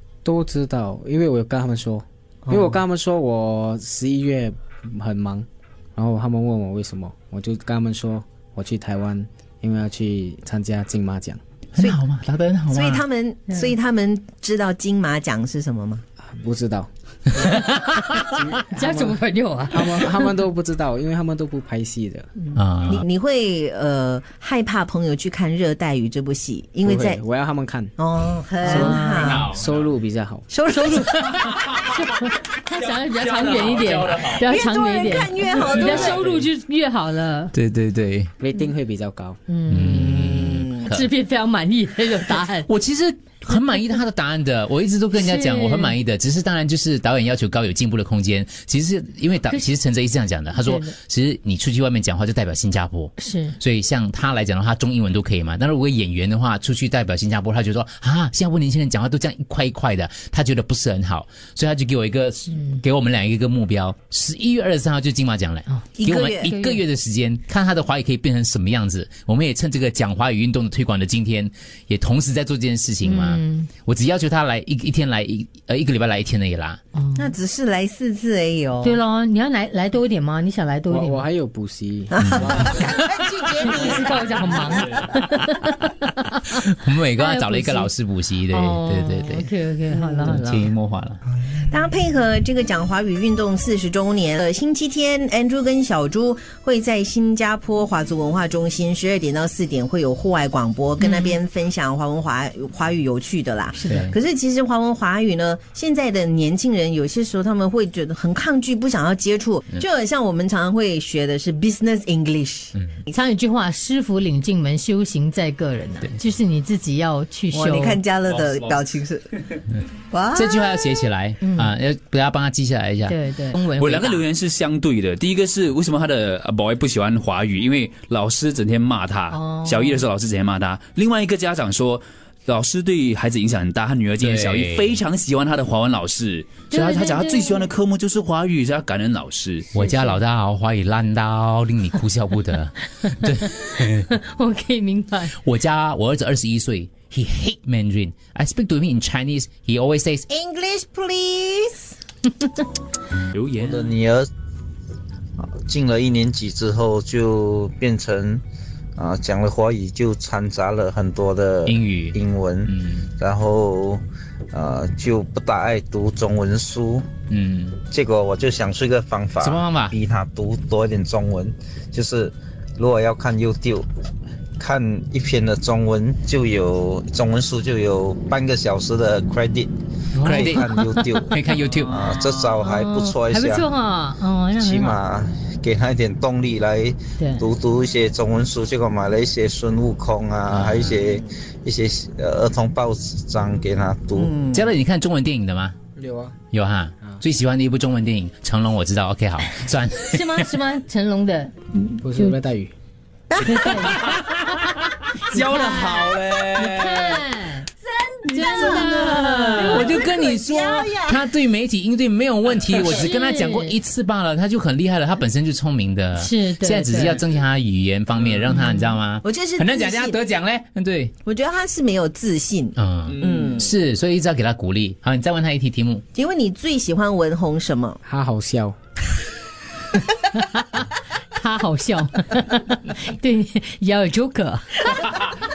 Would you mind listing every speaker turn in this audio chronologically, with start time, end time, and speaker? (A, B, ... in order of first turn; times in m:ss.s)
0:00.2-0:11.4 A
0:02.5-0:02.7 B
0:11.8-0:13.0 C
0:12.7-0:16.0 B
0:16.2-0:16.9 A
0:17.6-0:20.3 D
0:18.3-0:22.3 A
0:22.6-0:23.0 C
0:22.9-0:27.2 B
0:26.8-0:28.0 A
0:28.0-0:29.5 B
0:28.6-0:29.4 D
0:29.5-0:30.5 A
0:30.5-0:31.3 B
0:31.7-0:37.5 D
0:33.3-0:34.3 E
0:34.4-0:36.3 B
0:37.5-0:38.3 C
0:38.4-0:39.4 A
0:39.5-0:40.0 D
0:39.7-0:41.1 C
0:39.9-0:40.9 B
0:40.8-0:42.7 D
0:42.6-1:16.8 C
0:45.2-0:46.0 D
0:50.6-0:50.9 D
0:53.2-0:53.6 D
1:06.0-1:06.6 B
1:06.5-1:06.8 D
1:13.0-1:13.7 D
1:17.0-1:17.3 D
1:17.2-1:19.0 B
1:18.8-1:21.3 D
1:20.9-1:22.8 A
1:22.1-1:24.9 B
1:23.6-1:26.6 D
1:26.5-1:29.5 C
1:27.2-1:27.9 D
1:28.5-1:30.7 D
1:30.3-1:31.2 C
1:31.6-1:52.8 B
1:41.0-1:41.4 D
1:43.8-1:44.1 D
1:43.9-1:44.1 C
1:53.1-1:58.0 D
1:57.5-1:59.3 B
1:58.3-1:58.8 E
2:00.1-2:00.9 B
2:00.4-2:03.2 C
2:01.4-2:01.7 D
2:03.1-2:04.2 D
2:03.7-2:19.7 E
2:09.3-2:10.0 D
2:14.2-2:14.9 C
2:16.7-2:17.7 D
2:19.7-2:24.1 C
2:19.8-2:20.2 D
2:23.5-2:25.4 D
2:25.4-2:30.3 C
2:30.3-2:32.0 B
2:33.3-2:34.0 E
2:33.5-2:34.3 F
2:35.4-2:38.4 F
2:39.0-2:44.0 F
2:41.7-2:43.1 C
2:44.5-2:47.1 F
2:47.3-2:47.8 C
2:47.9-2:53.9 F
2:49.4-2:50.0 C
2:54.6-3:03.7 F
3:00.2-3:00.8 D
3:00.2-3:00.6 C
3:01.3-3:01.9 C
3:02.6-3:05.0 D
3:04.5-3:14.4 F
3:07.2-3:07.5 D
3:10.5-3:11.0 C
3:14.2-3:14.7 B
3:14.5-3:15.8 C
3:16.0-3:16.4 A
3:16.5-3:20.5 C
3:20.0-3:22.4 D
3:22.0-3:22.7 A
3:23.3-3:24.1 B
3:23.5-3:24.0 D
3:23.8-3:24.3 E
3:25.2-3:27.2 E
3:25.3-3:27.7 D
3:27.9-3:31.2 B
3:28.3-3:30.1 D
3:29.2-3:29.7 E
3:29.7-3:41.1 C
3:32.7-3:33.8 D
3:36.2-3:37.2 D
3:38.5-3:39.0 D
3:39.2-3:40.2 B
3:41.2-3:43.7 B
3:42.8-3:46.0 C
3:46.2-3:48.0 B
3:48.0-3:48.8 A
3:50.4-3:55.0 D